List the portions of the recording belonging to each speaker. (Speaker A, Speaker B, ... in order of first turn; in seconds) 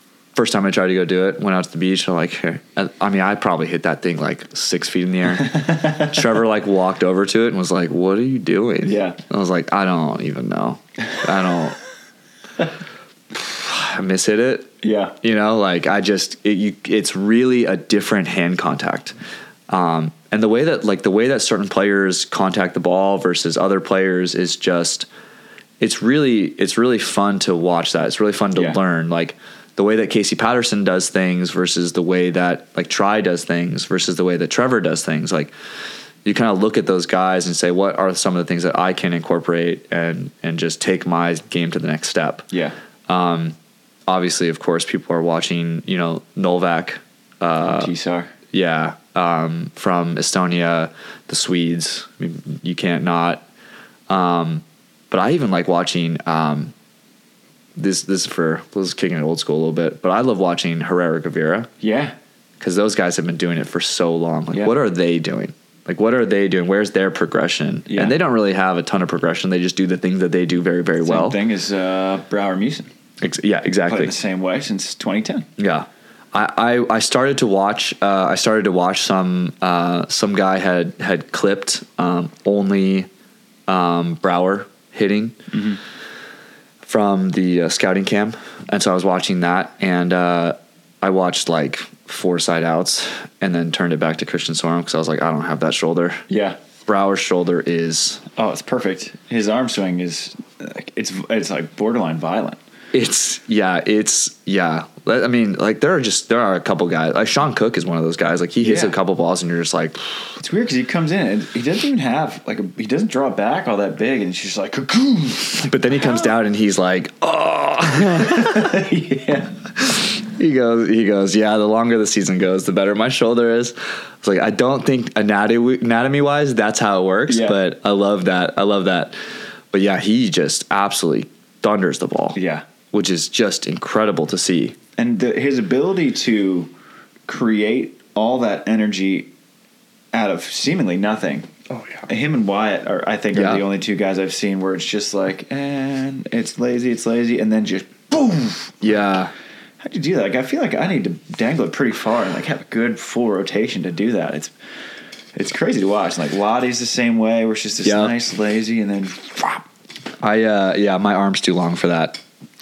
Speaker A: 0.3-11.8, 13.3-19.1, 19.7-25.1, 25.8-35.5, 36.2-42.5, 43.1-43.6, 44.1-47.9, 48.5-53.4, 54.1-56.7, 57.8-61.7, 62.6-71.4, 73.2-74.2, 75.6-83.1, 83.7-85.4, 86.8-96.2, 96.9-98.2, 102.9-110.3, 115.7-118.9, 119.8-129.2, 129.7-132.4, 132.9-134.8, 141.7-142.1, 143.3-143.6, 148.8-149.3, 157.8-158.2, 160.2-162.2
Speaker B: 5.5-6.1, 8.8-9.2, 14.8-15.2, 47.6-48.3, 61.8-62.1, 67.9-68.2, 71.0-72.9, 73.9-75.5, 85.5-85.8, 96.3-96.6, 98.4-102.6, 108.6-108.9, 110.4-115.8, 118.1-119.5, 127.3-127.6, 132.3-132.6, 135.0-136.7, 137.3-139.3, 140.1-141.5, 142.1-148.8, 149.8-154.5, 155.4-159.6